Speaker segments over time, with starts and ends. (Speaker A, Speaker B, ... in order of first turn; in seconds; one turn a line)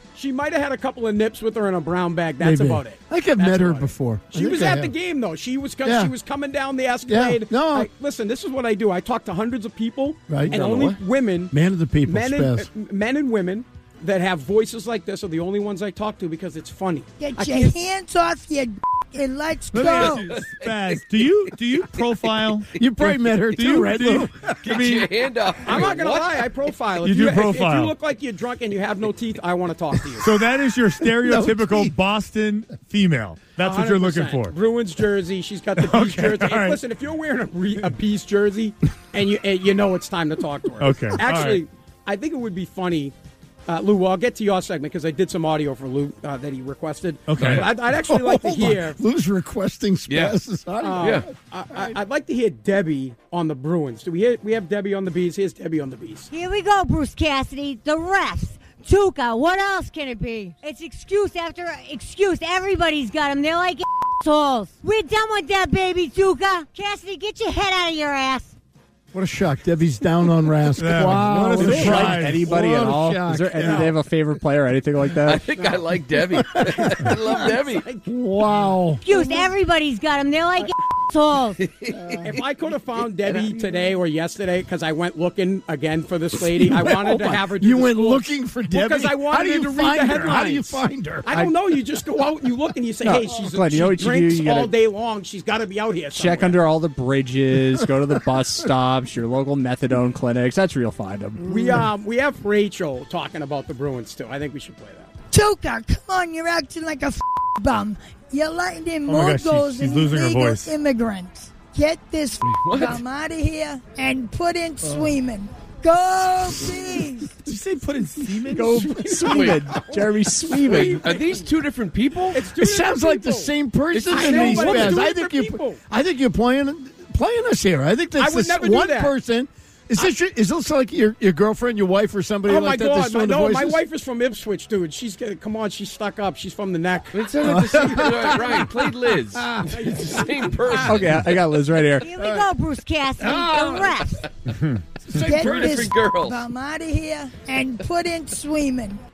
Speaker A: 0.1-11.5
Speaker B: 2.4-5.0
Speaker B: 5.8-6.1
Speaker B: 7.1-7.9
Speaker B: 10.3-10.6
Speaker C: 10.5-11.0
Speaker B: 11.5-12.7
Speaker A: 12.0-17.8
Speaker D: 17.2-20.3
Speaker E: 19.7-25.1
Speaker C: 19.9-21.0
Speaker B: 22.8-24.5
Speaker C: 24.6-26.5
Speaker A: 25.6-30.3
Speaker E: 27.0-27.9
Speaker E: 30.2-34.6
Speaker B: 31.2-31.9
Speaker A: 33.6-43.1
Speaker E: 35.8-36.8
Speaker E: 40.8-41.6
Speaker A: 43.7-49.0
Speaker E: 47.3-47.7
Speaker B: 47.4-52.0
Speaker C: 50.1-50.4
Speaker A: 50.8-56.3
Speaker C: 51.0-51.3
Speaker F: 56.3-68.5
Speaker B: 69.1-73.9
Speaker E: 70.8-72.6
Speaker G: 71.5-75.5
Speaker C: 75.2-77.9
Speaker B: 76.5-77.3
Speaker A: 77.3-78.1
Speaker B: 78.1-79.0
Speaker F: 79.0-81.6
Speaker A: 79.1-79.5
Speaker C: 81.6-82.2
Speaker B: 82.0-82.3
Speaker A: 82.2-96.6
Speaker B: 86.3-91.3
Speaker G: 93.0-94.7
Speaker G: 96.2-101.5
Speaker A: 101.5-105.1
Speaker D: 105.3-117.4
Speaker E: 109.1-110.7
Speaker C: 112.5-113.0
Speaker E: 117.5-119.3
Speaker G: 118.5-121.0
Speaker C: 119.2-119.7
Speaker A: 120.5-121.5
Speaker C: 120.6-122.4
Speaker A: 122.3-123.5
Speaker B: 122.6-133.8
Speaker C: 123.9-124.9
Speaker A: 124.0-125.8
Speaker A: 128.2-129.1
Speaker A: 132.5-138.7
Speaker C: 137.1-141.4
Speaker B: 137.4-139.8
Speaker A: 139.7-140.9
Speaker G: 140.8-142.1
Speaker F: 142.0-144.2
Speaker C: 143.2-144.2
Speaker E: 144.5-144.8
Speaker C: 145.1-146.5
Speaker D: 145.2-149.0